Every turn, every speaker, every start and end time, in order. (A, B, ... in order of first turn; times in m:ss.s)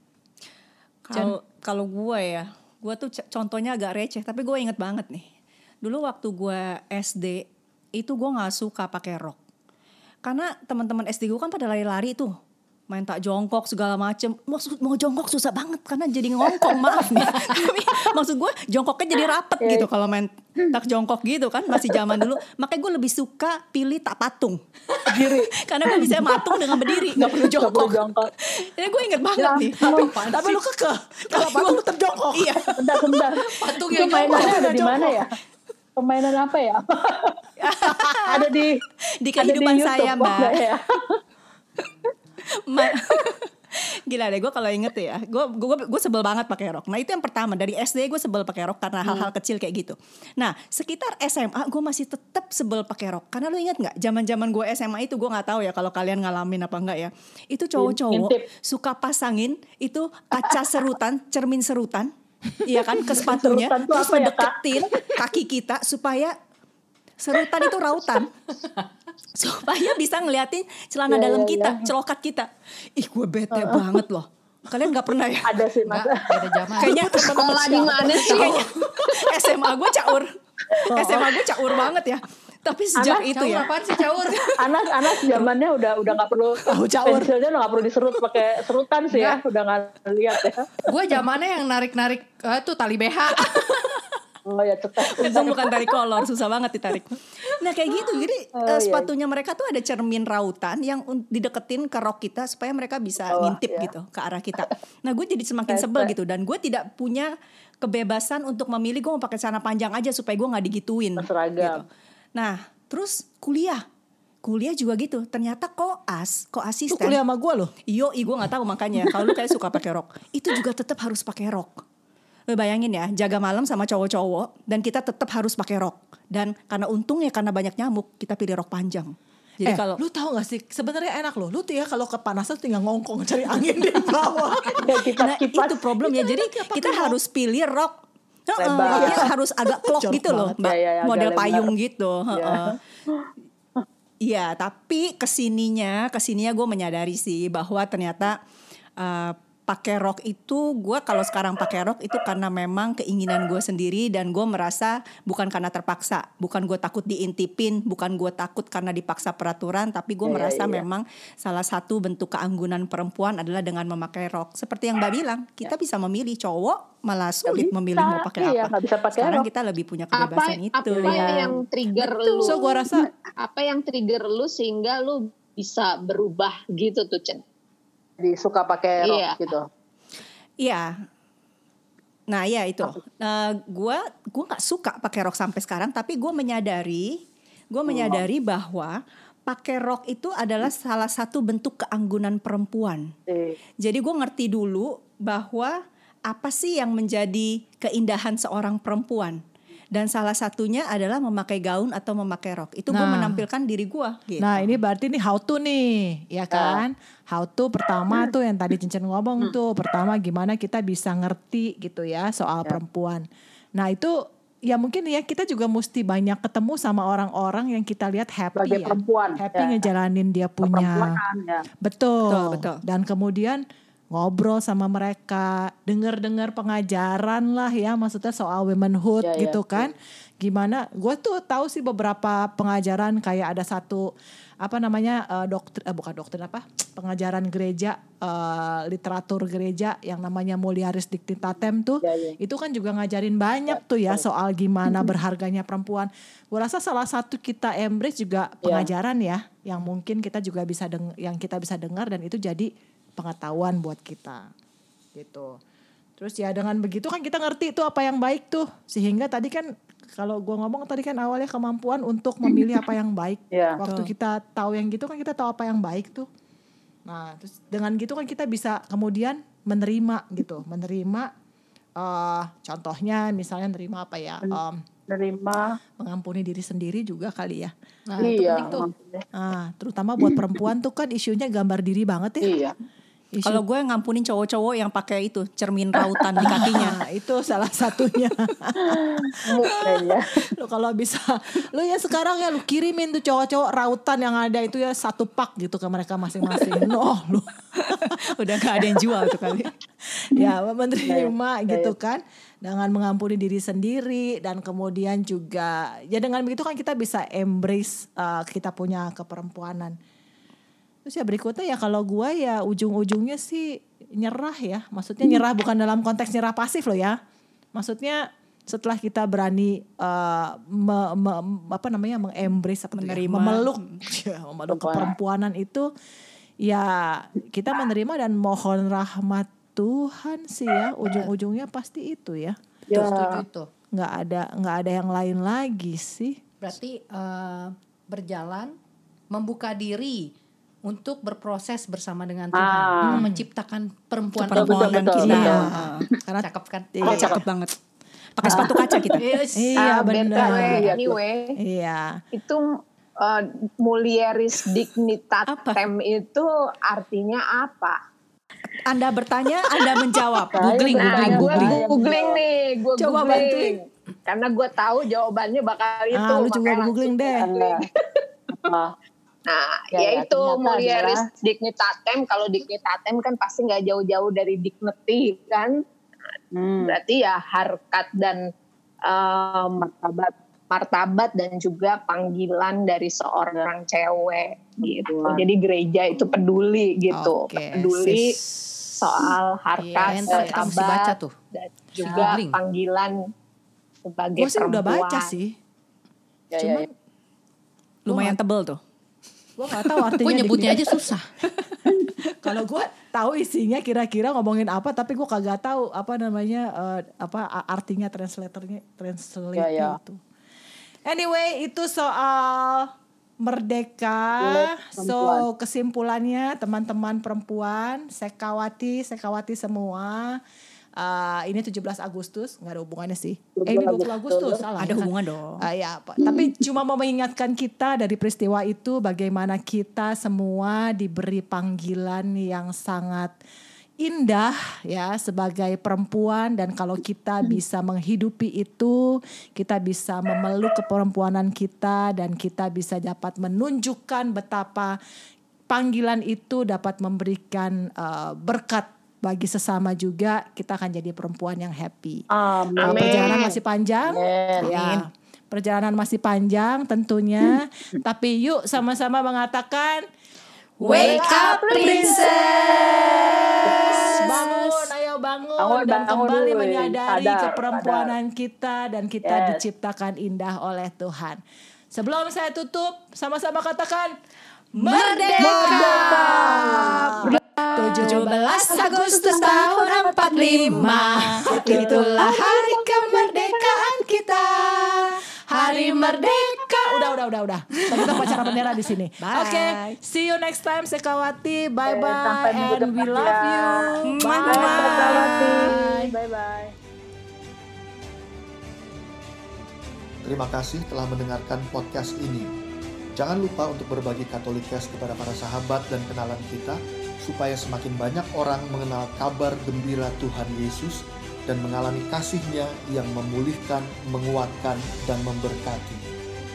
0:01.0-0:05.3 A
0:05.8-0:07.4 A
0:08.0-0:09.4 A
0:10.2-0:12.3 A
0:12.9-0:24.6 A
0:19.6-0:19.9 B
0:25.1-0:26.2 B
0:25.1-0:30.4 A
0:27.1-0:28.3 B
0:29.4-0:30.2 B
0:29.9-0:30.5 C
0:30.3-0:32.7 D
0:31.3-0:31.8 A
0:32.3-0:32.8 A
0:32.8-0:35.3 B
0:33.6-0:34.5 C
0:34.0-0:35.2 D
0:36.0-0:37.4 B
0:37.6-0:38.5 A
0:38.2-0:38.8 B
0:39.2-0:40.6 A
0:39.4-0:41.2 B
0:42.6-1:02.1 A
0:57.8-0:58.5 B
1:02.6-1:06.4 A
1:03.0-1:05.1 B
1:07.2-1:08.3 A
1:09.4-1:15.6 A
1:11.1-1:11.9 B
1:13.5-1:13.9 B
1:15.5-1:16.7 B
1:15.9-1:17.0 C
1:16.8-1:20.3 A
1:17.0-1:18.7 E
1:20.9-1:21.2 D
1:20.9-1:23.7 A
1:23.0-1:23.2 B
1:23.1-1:24.5 C
1:24.6-1:30.7 B
1:26.7-1:27.3 D
1:30.9-1:33.7 C
1:34.5-1:36.0 B
1:35.1-1:47.3 A
1:38.6-1:39.1 B
1:43.2-1:43.9 B
1:45.7-1:46.1 B
1:47.8-1:53.8 A
1:51.2-1:51.9 B
1:54.4-1:57.2 A
1:56.9-1:57.7 D
1:57.9-2:01.8 A
2:02.5-2:10.0 A
2:09.7-2:14.9 D
2:14.8-2:15.9 B
2:15.2-2:18.0 A
2:16.3-2:17.2 D
2:18.5-2:22.8 A
2:18.6-2:19.3 B
2:18.9-2:19.3 D
2:19.9-2:20.6 D
2:20.6-2:21.7 B
2:22.3-2:23.8 B
2:24.2-2:28.4 A
2:29.0-2:51.5 A
2:40.2-2:40.8 B
2:47.4-2:49.5 B
2:50.2-2:52.8 E
2:51.0-2:51.6 B
2:52.4-2:53.1 D
2:53.4-2:57.4 E
2:58.2-2:59.7 B
2:59.0-2:59.5 E
3:00.6-3:00.9 A
3:02.3-3:07.1 A
3:07.7-3:08.9 A
3:07.9-3:08.2 B
3:09.5-3:13.1 A
3:13.3-3:13.6 B
3:13.8-3:15.8 A
3:16.3-3:19.4 A
3:19.9-3:24.7 A
3:22.9-3:23.5 D
3:24.4-3:33.2 D
3:26.5-3:26.8 B
3:33.8-3:34.2 D
3:34.7-3:41.2 D
3:38.6-3:39.8 B
3:40.6-3:41.6 B
3:41.8-3:54.1 D
3:42.3-3:42.8 A
3:49.2-3:49.9 B
3:54.6-4:14.5 D
4:02.0-4:02.4 B
4:03.7-4:04.2 B
4:08.6-4:08.9 B
4:15.2-4:15.6 D
4:16.2-4:26.3 D
4:23.5-4:23.8 B
4:23.8-4:24.1 A
4:27.1-4:31.3 D
4:32.0-4:34.8 D
4:34.4-4:35.8 B
4:36.0-4:37.7 D
4:38.1-4:38.9 C
4:38.2-4:39.2 B
4:39.3-4:42.5 D
4:42.4-4:42.8 B
4:43.3-4:43.6 D
4:43.5-4:47.0 A
4:46.4-4:58.2 D
4:48.8-4:50.5 B
4:57.8-4:59.7 A
4:58.8-4:59.1 D
5:00.1-5:10.0 D
5:01.0-5:01.9 B
5:11.0-5:17.2 D
5:17.8-5:25.9 D
5:23.0-5:24.0 A
5:24.7-5:25.1 B
5:26.6-5:32.6 D
5:32.9-5:33.4 B
5:32.9-5:33.7 C
5:33.9-5:36.4 D
5:36.6-5:38.7 C
5:39.3-5:40.3 C
5:40.9-5:45.6 C
5:42.5-5:43.2 B
5:43.0-5:43.4 D
5:44.4-5:46.1 A
5:44.5-5:45.7 B
5:45.2-5:47.4 D
5:46.4-5:47.0 C
5:47.0-5:47.8 A
5:47.1-5:47.4 B
5:48.4-5:49.4 A
5:48.4-5:48.7 D
5:48.5-5:48.9 B
5:49.2-5:49.8 C
5:49.6-5:50.9 D
5:49.8-5:51.6 E
5:50.4-5:51.2 B
5:51.6-5:52.2 D
5:52.4-5:52.6 E
5:53.2-5:58.0 E
5:55.5-5:55.8 A
5:58.8-6:00.7 A
6:00.5-6:02.4 B
6:00.6-6:01.7 C
6:00.9-6:07.9 E
6:00.9-6:01.8 D
6:03.0-6:03.8 D
6:06.1-6:07.5 D
6:07.4-6:07.8 B
6:08.5-6:08.9 B
6:09.5-6:15.8 E
6:09.9-6:11.2 B
6:16.6-6:17.0 B
6:16.8-6:18.4 E
6:19.1-6:28.4 E
6:24.8-6:25.4 B
6:27.1-6:29.3 D
6:29.0-6:33.2 E
6:29.8-6:31.3 C
6:30.0-6:30.8 D
6:32.0-6:32.6 C
6:32.0-6:32.3 B
6:34.0-6:35.3 E
6:34.4-6:35.6 D
6:36.5-6:36.9 D
6:36.6-6:36.9 B
6:38.1-6:38.8 A
6:38.1-6:38.4 D
6:39.6-6:41.0 D
6:40.2-6:41.3 C
6:42.4-6:50.2 D
6:49.6-6:50.0 B
6:51.0-7:00.4 D
6:54.4-6:55.5 B
7:01.0-7:13.4 D
7:03.6-7:04.6 B
7:04.8-7:05.6 A
7:14.0-7:25.0 D
7:25.7-7:32.2 D
7:32.3-7:33.5 B
7:32.8-7:33.6 E
7:32.8-7:40.0 D
7:34.1-7:34.7 E
7:34.6-7:35.0 A
7:40.8-7:43.1 C
7:40.9-7:51.4 D
7:40.9-7:42.2 E
7:43.7-7:44.2 B
7:43.9-7:44.7 C
7:45.6-7:48.1 B
7:49.2-7:49.6 B
7:51.9-7:54.1 D
7:54.8-7:57.2 A
7:54.8-8:16.1 D
7:55.4-7:57.4 B
7:57.8-8:03.6 A
8:01.7-8:02.0 B
8:04.4-8:05.0 A
8:07.9-8:08.3 A
8:09.2-8:10.0 A
8:11.8-8:16.7 B
8:14.1-8:15.6 A
8:20.2-8:22.5 F
8:23.2-8:36.0 F